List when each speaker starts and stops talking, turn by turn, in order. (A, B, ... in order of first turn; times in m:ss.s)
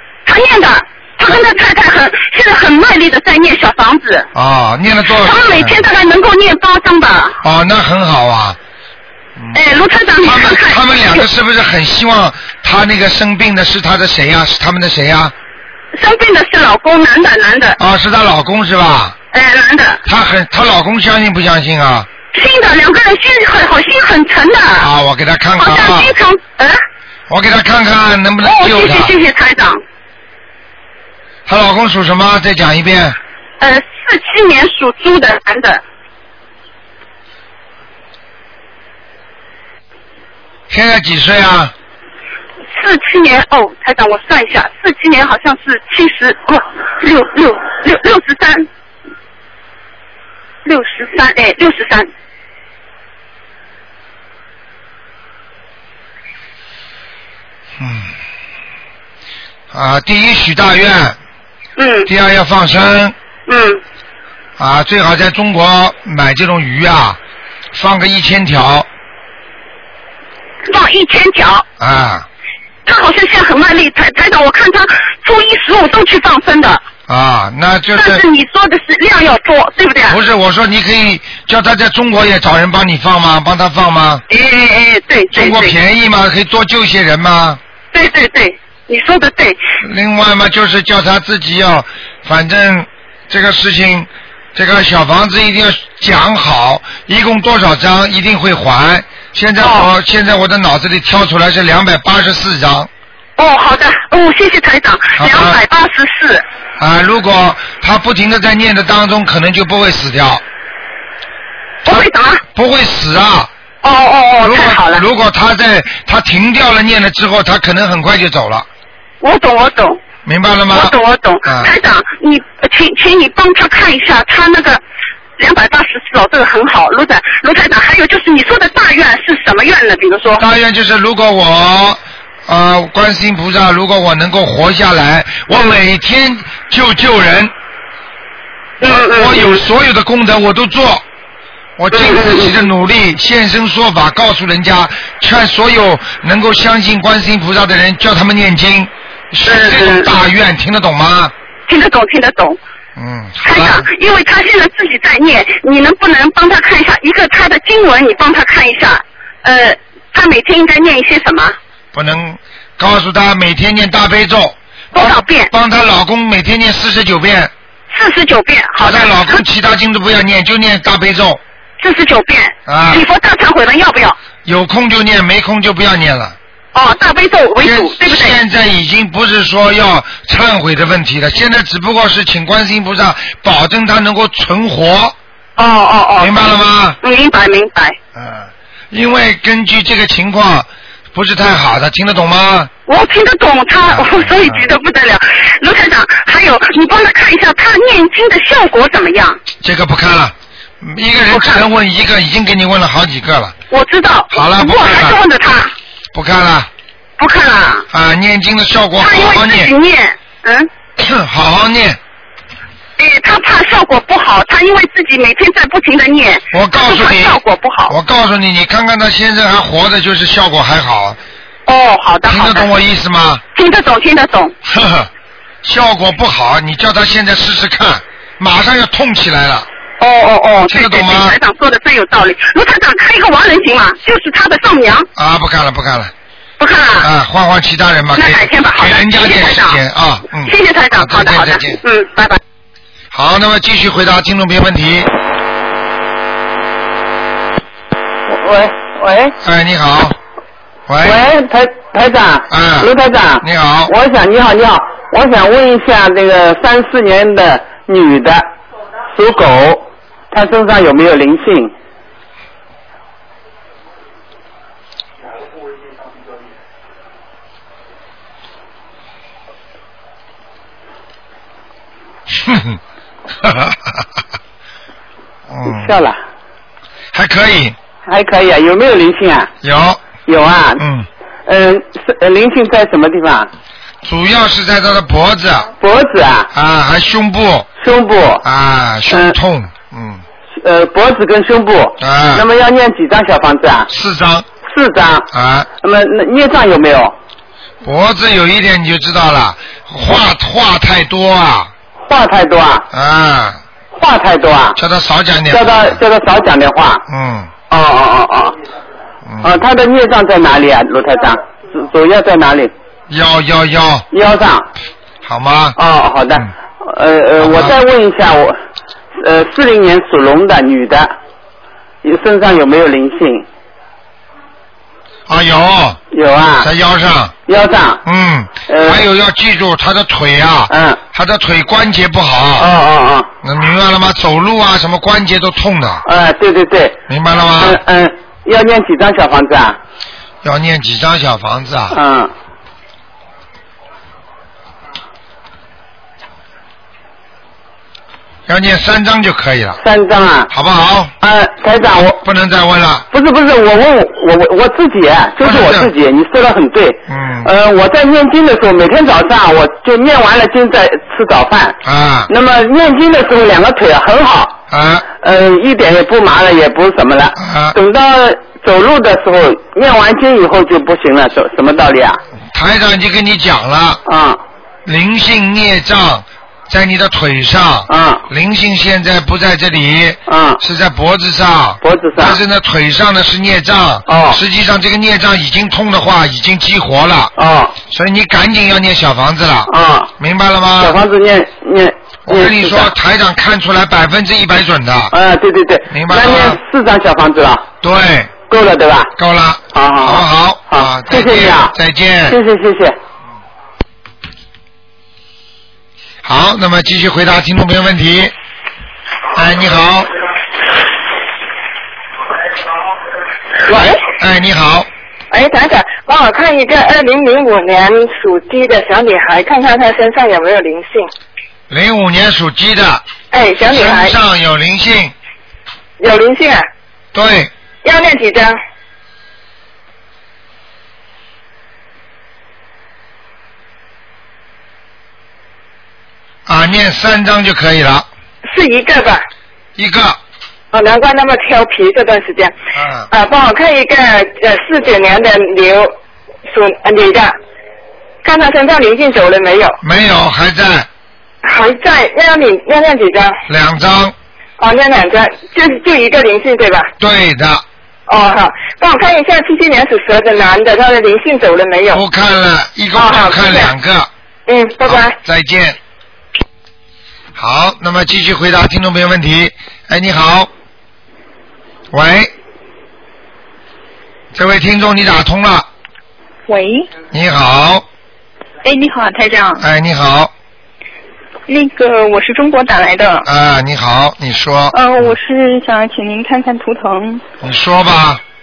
0:00.2-0:04.3 A
0:04.3-0:05.8 B
0:05.1-0:07.4 A
0:07.4-0:08.6 B
0:09.5-0:11.2 A
0:10.2-0:15.3 B
0:15.9-0:17.8 A
0:17.8-0:19.2 B
0:19.3-0:20.0 A
0:20.0-0:22.1 B
0:22.3-0:24.9 A
0:24.8-0:26.1 B
0:25.6-0:26.8 A
0:27.3-0:29.1 B
0:28.4-0:29.8 A
0:31.4-0:33.2 B
0:33.6-0:35.8 A
0:40.7-0:41.7 B
0:42.7-0:48.7 A
0:50.6-0:52.1 A
0:57.8-0:58.1 B
0:59.7-1:01.2 B
1:01.8-1:02.1 A
1:02.1-1:03.1 B
1:03.5-1:03.8 A
1:04.6-1:07.2 B
1:07.7-1:08.9 B
1:10.7-1:11.6 A
1:11.8-1:12.3 B
1:12.8-1:16.8 A
1:17.1-1:18.2 B
1:17.9-1:20.2 A
1:20.1-1:24.2 B
1:24.3-1:25.8 A
1:25.3-1:27.6 B
1:27.9-1:29.6 A
1:29.8-1:42.9 B
1:39.6-1:39.9 A
1:43.4-1:46.4 A
1:45.2-1:45.6 B
1:46.8-1:50.4 B
1:51.8-1:52.4 A
1:51.8-1:53.5 B
1:53.8-1:55.0 A
1:54.4-1:58.7 B
1:59.2-2:00.0 A
2:00.2-2:01.7 B
2:00.7-2:04.8 A
2:05.4-2:10.4 A
2:10.4-2:17.5 B
2:18.8-2:19.6 A
2:18.8-2:21.0 B
2:21.8-2:31.3 B
2:21.9-2:22.6 A
2:29.4-2:30.1 A
2:31.7-2:32.6 A
2:33.0-2:33.9 B
2:33.4-2:41.6 A
2:41.9-2:47.5 B
2:44.9-2:45.5 A
2:47.9-2:49.4 A
2:48.8-2:51.4 B
2:51.8-2:54.2 A
2:52.7-2:53.0 B
2:54.4-2:56.4 B
2:56.7-2:58.4 A
2:57.6-3:05.1 B
3:05.6-3:08.0 A
3:06.2-3:07.0 B
3:08.1-3:12.7 B
3:12.8-3:19.4 A
3:13.9-3:14.6 B
3:19.6-3:23.6 B
3:21.3-3:21.6 A
3:23.7-3:25.7 A
3:24.3-3:25.2 B
3:26.1-3:26.7 B
3:27.2-3:27.9 A
3:27.9-3:29.7 B
3:29.0-3:30.7 A
3:31.0-3:32.0 B
3:33.0-3:38.0 A
3:36.5-3:41.2 B
3:41.6-3:42.7 A
3:42.2-3:43.4 B
3:43.5-3:44.5 A
3:44.6-3:45.1 B
3:45.6-3:49.7 B
3:50.0-3:55.1 A
3:50.7-3:51.4 B
3:55.2-3:56.1 B
3:56.6-3:57.1 A
3:57.0-4:01.8 B
3:58.1-3:59.8 A
4:00.4-4:02.4 A
4:03.1-4:05.1 B
4:08.3-4:09.3 C
4:09.4-4:10.2 B
4:10.9-4:11.2 B
4:11.0-4:18.5 C
4:12.5-4:13.9 B
4:19.1-4:21.7 C
4:32.3-4:32.8 B
4:33.4-4:34.0 B
4:35.5-4:35.9 B
4:35.6-4:36.2 C
4:37.1-4:37.8 B
4:38.0-4:39.5 C
4:39.6-4:40.2 B
4:40.2-4:40.8 C
4:40.8-4:41.1 B
4:41.4-4:43.5 C
4:44.0-4:45.7 B
4:45.8-4:46.5 C
4:46.5-4:47.7 B
4:47.8-4:48.4 C
4:48.4-4:50.2 B
4:49.1-4:49.4 C
4:50.6-4:53.9 C
4:52.0-4:52.4 B
4:53.9-4:54.4 B
4:54.6-4:55.3 C
4:55.3-4:55.7 B
4:55.8-4:57.1 C
4:57.8-5:01.7 B
5:02.1-5:02.9 C
5:02.9-5:03.6 B
5:03.9-5:04.8 C
5:04.8-5:06.0 B
5:05.5-5:07.0 C
5:07.1-5:07.5 B
5:07.7-5:08.6 C
5:09.2-5:09.6 B
5:09.4-5:12.7 C
5:13.1-5:14.1 B
5:14.1-5:14.7 C
5:15.2-5:15.8 B
5:15.8-5:18.6 C
5:17.4-5:17.8 B
5:19.2-5:21.1 C
5:22.0-5:23.4 C
5:25.3-5:26.0 B
5:26.1-5:26.7 C
5:26.6-5:27.3 B
5:27.5-5:28.0 C
5:28.0-5:32.7 B
5:28.7-5:29.0 C
5:30.7-5:31.0 C
5:32.6-5:33.3 C
5:33.4-5:36.0 B
5:36.0-5:37.0 C
5:37.1-5:37.8 B
5:37.6-5:39.8 C
5:40.4-5:42.0 B
5:41.9-5:42.3 C
5:48.5-5:49.8 B
5:49.8-5:50.5 C
5:50.5-5:51.1 B
5:51.2-5:52.2 C
5:52.2-5:53.0 B
5:53.1-6:01.8 C
5:55.4-5:55.9 B
5:57.1-5:57.5 B
6:01.8-6:02.3 B
6:02.3-6:04.6 C
6:04.7-6:05.0 B
6:05.2-6:12.2 C
6:07.4-6:07.8 B
6:12.5-6:14.0 B
6:14.0-6:14.4 C
6:14.8-6:27.3 B
6:17.9-6:18.2 C
6:20.3-6:20.6 C
6:21.8-6:22.4 C
6:24.1-6:24.4 C
6:27.4-6:27.8 C
6:27.9-6:31.0 B
6:29.7-6:30.1 C
6:30.8-6:32.9 C
6:32.3-6:35.1 B
6:35.1-6:37.7 C
6:35.9-6:36.6 B
6:37.8-6:38.3 B
6:38.5-6:39.1 C
6:39.2-6:42.4 B
6:39.7-6:41.7 C
6:42.3-6:43.0 C
6:46.2-6:48.3 B
6:49.3-6:50.1 B
6:53.6-6:54.9 B
6:55.3-7:01.1 D
7:01.7-7:03.0 B
7:03.3-7:04.2 D
7:03.6-7:05.1 B
7:06.0-7:06.7 D
7:07.1-7:07.5 B
7:07.8-7:08.6 D
7:16.4-7:18.1 B
7:18.4-7:19.2 D
7:19.8-7:20.2 B
7:20.7-7:22.5 D
7:22.7-7:23.1 B
7:23.1-7:25.9 D
7:26.5-7:27.3 D
7:28.2-7:29.8 D
7:29.8-7:30.9 B
7:31.4-7:33.4 D
7:33.5-7:34.1 B
7:34.6-7:36.9 D
7:37.0-7:37.6 B
7:38.1-7:42.0 D
7:41.9-7:44.1 B
7:42.9-7:43.7 D
7:44.5-7:45.1 D
7:44.8-7:45.8 B
7:47.4-7:50.5 B
7:51.9-7:52.3 B
7:54.3-7:55.7 B
7:56.5-7:56.8 E
7:57.1-7:57.8 B
7:58.6-7:59.6 E
7:59.6-8:00.3 B
8:01.5-8:03.2 E
8:03.2-8:04.8 B
8:04.7-8:07.2 E
8:07.4-8:08.2 B